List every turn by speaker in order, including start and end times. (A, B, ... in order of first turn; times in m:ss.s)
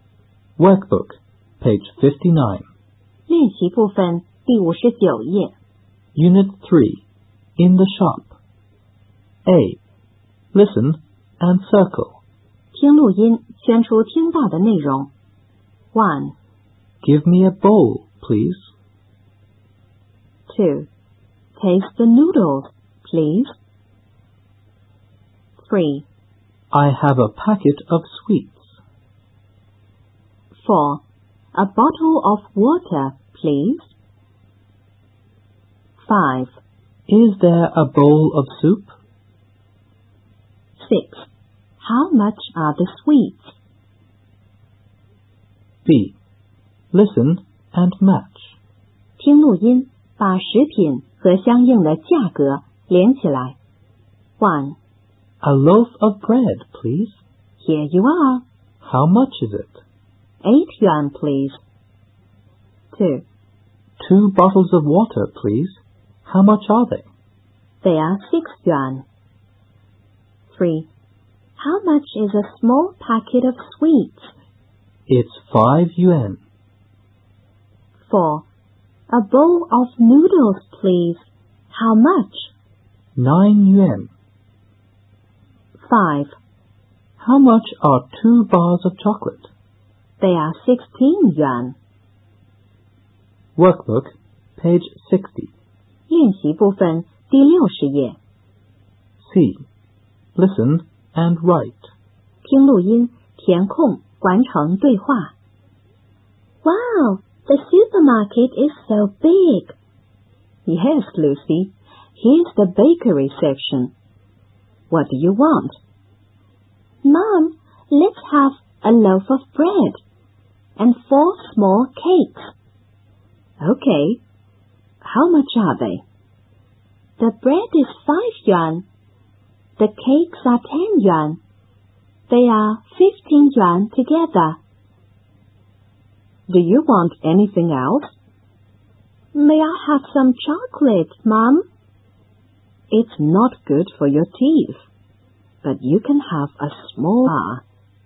0:00.6-0:02.6 A
0:03.3-0:05.5 B
0:06.1-0:07.0 A
0:07.6-0:08.3 A
0:09.4-0:09.8 A
0:10.5-0:12.2 A
0:12.7-0:15.1 B
0:15.9-0:16.3 B
0:17.0-0:18.7 A
0:20.5-0:20.9 B
0:21.6-0:23.5 B
0:25.6-0:26.0 B
0:26.7-0:28.7 A
0:30.6-0:31.0 B
0:31.5-0:33.9 B
0:36.0-0:36.6 B
0:37.1-0:38.9 A
0:40.8-0:41.3 B
0:41.8-0:43.5 B
0:45.8-0:46.2 A
0:46.9-0:48.6 A
0:49.2-0:53.6 B
0:54.4-0:54.8 B
0:55.4-0:57.2 A
0:57.6-0:58.4 B
0:58.8-0:59.8 A
1:00.4-1:01.6 B
1:02.9-1:03.2 B
1:04.0-1:07.1 A
1:07.8-1:09.0 B
1:10.5-1:10.9 B
1:11.6-1:14.3 B
1:15.1-1:16.4 A
1:18.1-1:18.4 B
1:19.1-1:22.5 B
1:23.1-1:24.1 A
1:25.8-1:26.3 B
1:27.2-1:29.5 A
1:30.2-1:31.8 B
1:33.6-1:35.5 A
1:36.1-1:38.2 B
1:39.2-1:39.6 A
1:40.4-1:41.9 A
1:42.4-1:45.3 B
1:46.6-1:49.8 B
1:50.6-1:53.9 B
1:54.9-1:55.8 B
1:57.0-2:00.0 B
2:00.8-2:02.5 B
2:03.6-2:04.2 B
2:05.0-2:06.0 B
2:07.2-2:08.8 B
2:09.8-2:11.4 B
2:12.3-2:14.6 B
2:16.5-2:18.2 B
2:19.3-2:21.6 B
2:22.9-2:24.8 B
2:25.6-2:27.6 B